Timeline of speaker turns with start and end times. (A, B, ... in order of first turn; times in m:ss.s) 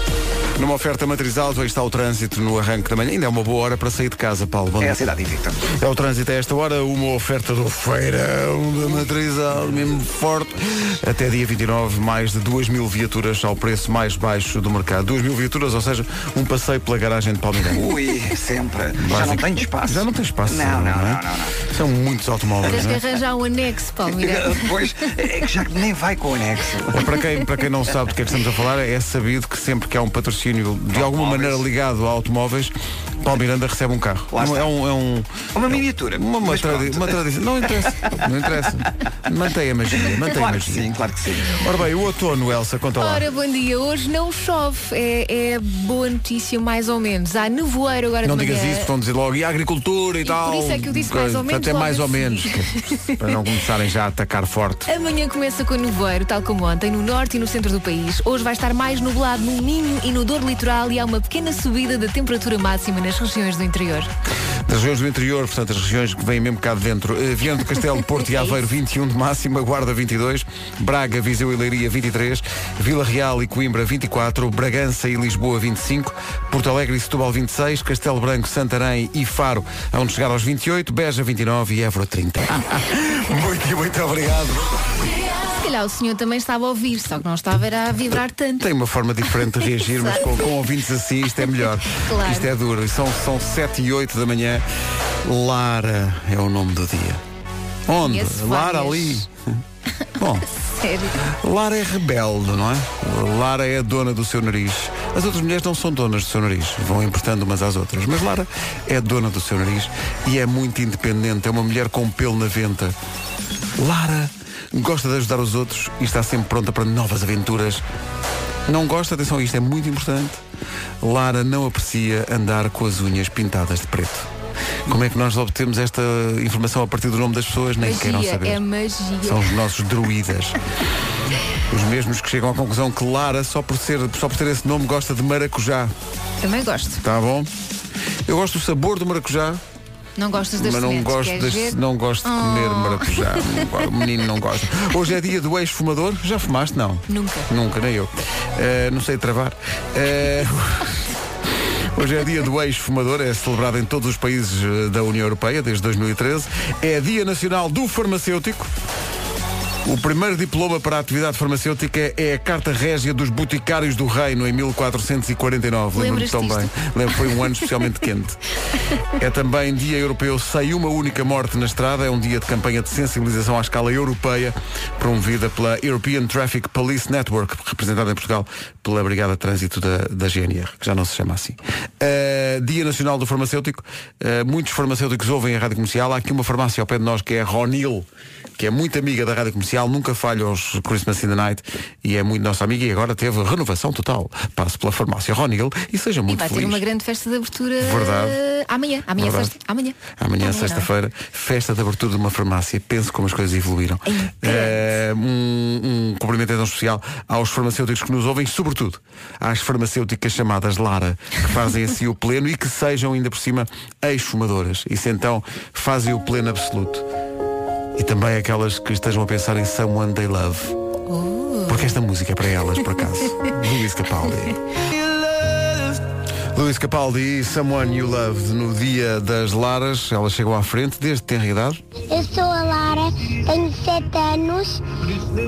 0:00.6-0:05.0 A
0:04.8-0:05.6 B
0:05.7-0:17.8 A
0:17.7-0:21.6 B
0:19.0-0:23.0 A
0:22.7-0:24.6 C
0:24.1-0:27.1 B
0:26.9-0:40.9 A
0:30.9-0:31.6 B
0:34.3-0:34.7 B
0:35.5-0:38.2 B
0:39.9-0:41.6 B
0:41.6-0:43.2 A
0:43.0-0:48.9 C
0:48.2-0:54.9 A
0:50.2-0:52.6 C
0:54.8-1:04.1 C
1:04.7-1:24.6 A
1:25.5-1:28.6 C
1:28.1-1:34.6 A
1:29.6-1:30.2 C
1:31.9-1:32.5 C
1:35.2-1:37.2 A
1:37.9-1:39.6 A
1:38.0-1:39.2 C
1:40.2-1:40.4 A
1:40.5-1:41.2 C
1:41.2-1:52.9 A
1:53.8-1:57.8 A
1:58.7-2:00.4 A
2:01.0-2:04.3 A
2:04.9-2:08.6 A
2:07.8-2:09.6 C
2:09.2-2:10.6 A
2:11.7-2:15.9 A
2:16.4-2:17.0 C
2:17.0-2:17.5 A
2:18.2-2:19.6 A
2:20.2-2:23.6 C
2:20.6-2:31.0 A
2:27.1-2:27.5 C
2:31.9-2:38.7 A
2:39.8-2:48.4 A
2:45.9-2:46.9 C
2:49.2-3:08.0 A
3:08.6-3:16.8 A
3:16.3-3:20.9 C
3:17.8-3:18.4 A
3:19.2-3:19.5 A
3:20.2-3:37.0 A
3:24.1-3:24.9 C
3:38.0-3:40.7 A
3:41.1-3:41.9 C
3:41.7-3:44.6 A
3:46.5-3:51.8 A
3:52.1-3:54.8 D